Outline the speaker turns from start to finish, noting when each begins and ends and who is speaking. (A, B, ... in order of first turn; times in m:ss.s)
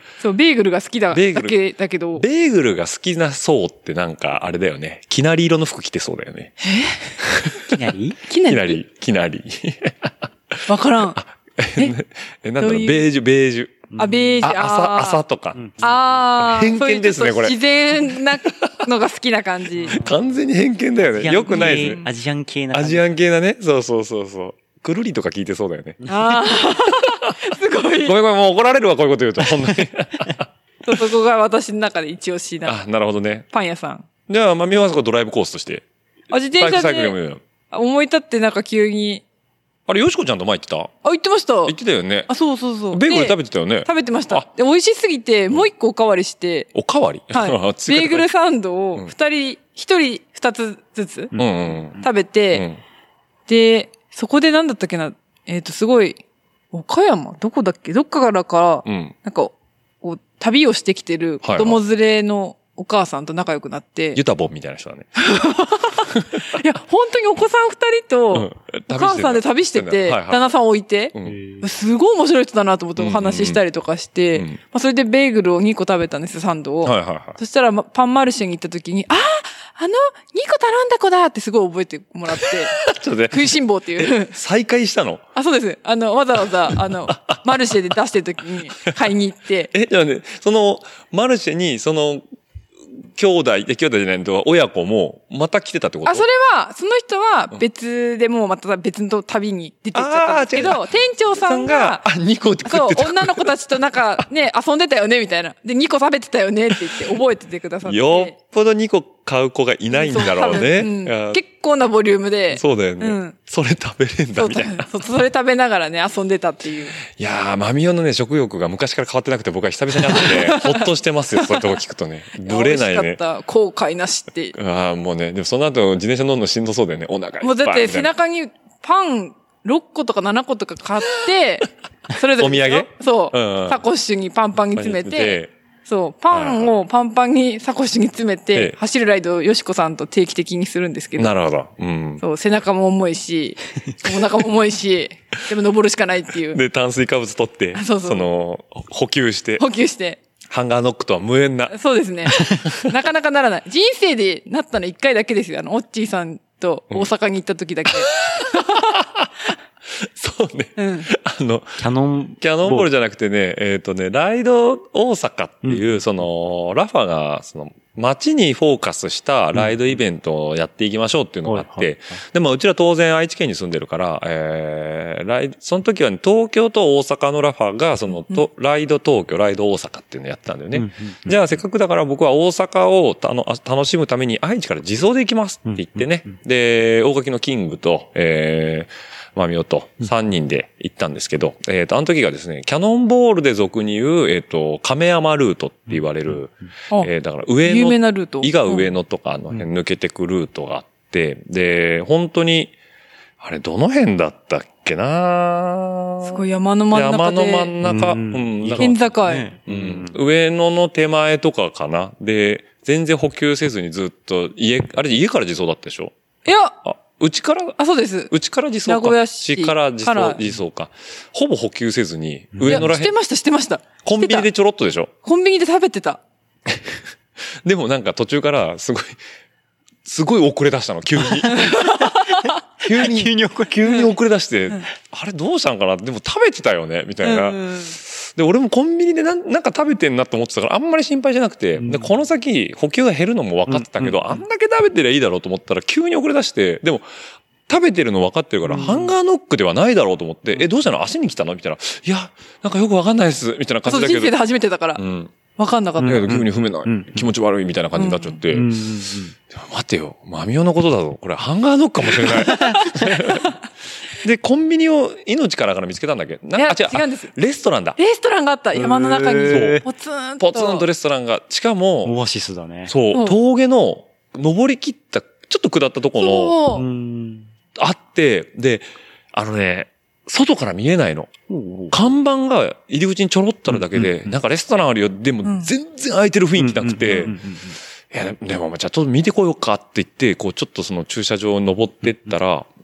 0:00.2-0:02.2 A
0:01.1-0:01.6 B
0:02.2-0:06.6 B
0:06.6-0:07.2 A
0:07.2-0:07.8 B
0:07.7-0:08.2 C
0:08.3-0:08.8 A
0:08.4-0:13.9 B
0:10.7-0:11.2 A
0:12.6-0:13.1 A
0:13.9-0:14.4 C
0:14.0-0:15.2 A
0:14.4-0:18.7 B
0:15.6-0:15.8 C
0:15.8-0:20.0 A
0:19.8-0:22.1 B
0:21.1-0:23.0 C
0:21.6-0:22.1 A
0:22.7-0:27.3 B
0:26.1-0:28.2 A
0:28.0-0:30.5 B
0:30.8-0:32.8 A
0:32.6-0:33.4 B
0:33.5-0:34.1 A
0:34.3-0:35.8 B
0:36.3-0:37.2 A
0:36.6-0:37.4 B
0:37.7-0:39.2 A
0:39.9-0:40.9 B
0:41.0-0:41.8 A
0:41.6-0:42.3 B
0:42.3-0:46.7 A
0:42.9-0:44.5 B
0:46.7-0:48.3 B
0:47.3-0:51.3 A
0:51.4-0:52.8 B
0:52.0-0:52.7 A
0:53.5-0:56.2 A
0:56.7-1:04.2 A
0:58.8-0:59.1 B
1:01.4-1:01.8 B
1:04.1-1:05.1 B
1:05.2-1:24.3 A
1:06.1-1:06.4 B
1:08.3-1:10.4 B
1:11.2-1:11.6 C
1:13.0-1:13.6 B
1:16.8-1:17.4 B
1:22.4-1:25.2 B
1:25.4-1:29.7 A
1:26.7-1:27.7 B
1:29.7-1:32.2 B
1:33.1-1:36.3 B
1:36.0-1:42.1 A
1:40.0-1:43.6 B
1:42.6-1:48.4 A
1:47.8-1:51.4 B
1:49.9-1:53.4 A
1:52.5-1:54.9 B
1:54.4-1:57.0 A
1:57.0-2:03.2 B
2:00.1-2:01.7 A
2:02.4-2:04.6 A
2:04.5-2:08.1 B
2:07.4-2:21.3 A
2:12.4-2:13.8 B
2:14.8-2:15.5 B
2:16.3-2:16.8 B
2:21.2-2:22.2 B
2:22.2-2:26.6 A
2:26.5-2:29.6 B
2:27.8-2:28.3 A
2:29.6-2:30.2 A
2:30.5-2:32.9 B
2:31.7-2:38.9 A
2:38.0-2:39.3 B
2:39.9-2:41.8 B
2:40.8-2:41.1 A
2:41.8-2:42.9 C
2:42.4-3:22.8 B
2:51.5-2:52.2 C
3:00.7-3:01.4 C
3:05.7-3:06.3 C
3:17.6-3:18.9 A
3:23.4-3:29.0 B
3:26.2-3:27.8 A
3:27.8-3:30.2 C
3:28.8-3:29.5 A
3:29.7-3:36.1 B
3:36.4-3:36.8 A
3:36.8-3:37.8 B
3:37.8-3:38.3 A
3:38.3-3:43.1 B
3:38.9-3:40.4 A
3:42.5-3:42.9 C
3:42.6-3:44.5 A
3:44.0-3:45.1 B
3:45.2-3:46.2 A
3:46.7-3:47.0 B
3:47.6-3:49.2 B
3:50.0-3:51.8 B
3:51.5-3:52.5 A
3:51.5-3:54.0 C
3:52.8-4:07.0 B
3:57.2-3:58.0 A
4:01.8-4:02.1 C
4:03.7-4:04.4 C
4:07.7-4:14.4 B
4:08.7-4:09.1 C
4:13.9-4:15.0 A
4:15.0-4:15.3 B
4:15.6-4:16.3 A
4:16.0-4:17.3 C
4:16.0-4:18.9 B
4:18.0-4:18.4 A
4:18.5-4:19.3 C
4:19.5-4:23.5 B
4:22.4-4:23.0 C
4:22.7-4:23.5 A
4:24.1-4:28.0 B
4:26.6-4:27.3 A
4:28.0-4:30.9 A
4:28.7-4:29.8 C
4:29.5-4:29.8 B
4:30.4-4:32.1 B
4:32.0-4:32.9 C
4:32.9-4:36.6 B
4:36.2-4:36.8 A
4:36.7-4:37.5 C
4:37.8-4:41.3 B
4:41.5-4:42.1 C
4:41.9-4:47.4 B
4:43.7-4:44.3 C
4:45.4-4:45.7 A
4:46.6-4:47.8 C
4:48.1-4:52.7 B